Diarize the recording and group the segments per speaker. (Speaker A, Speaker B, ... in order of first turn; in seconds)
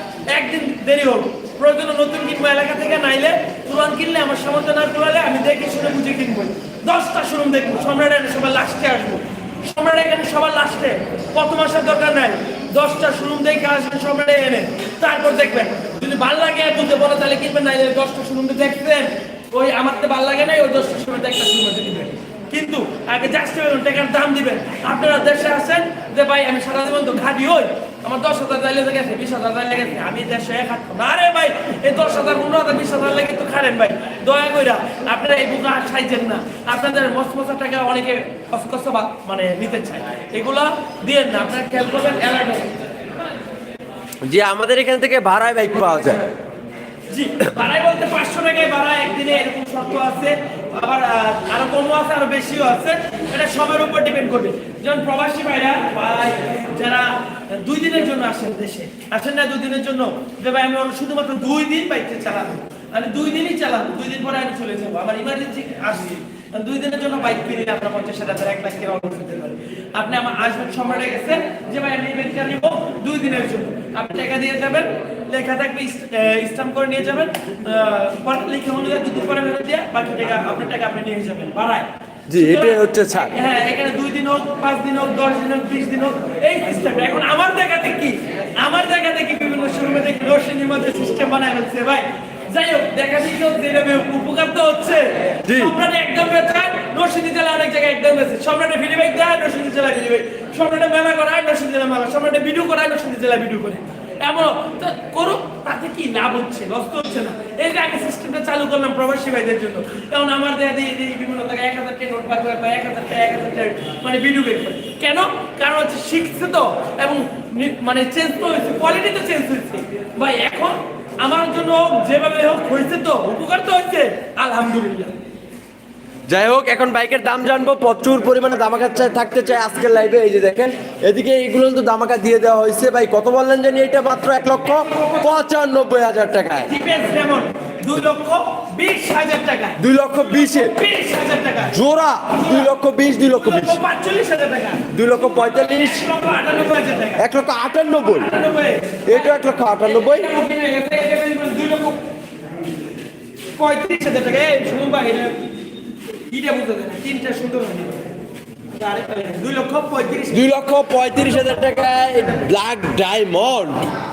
Speaker A: 0.3-42.7, 46.0-46.2, 47.1-125.1, 134.7-135.4, 136.6-141.8, 142.3-142.7, 143.3-147.2, 148.0-152.0, 153.6-155.4, 156.3-158.1, 158.8-160.4, 161.9-162.2
Speaker B: 44.2-46.2, 82.3-83.3, 95.4-95.8, 126.3-136.7, 139.8-140.7, 141.7-143.8, 144.9-146.0, 147.2-148.3, 149.1-150.3, 160.3-163.9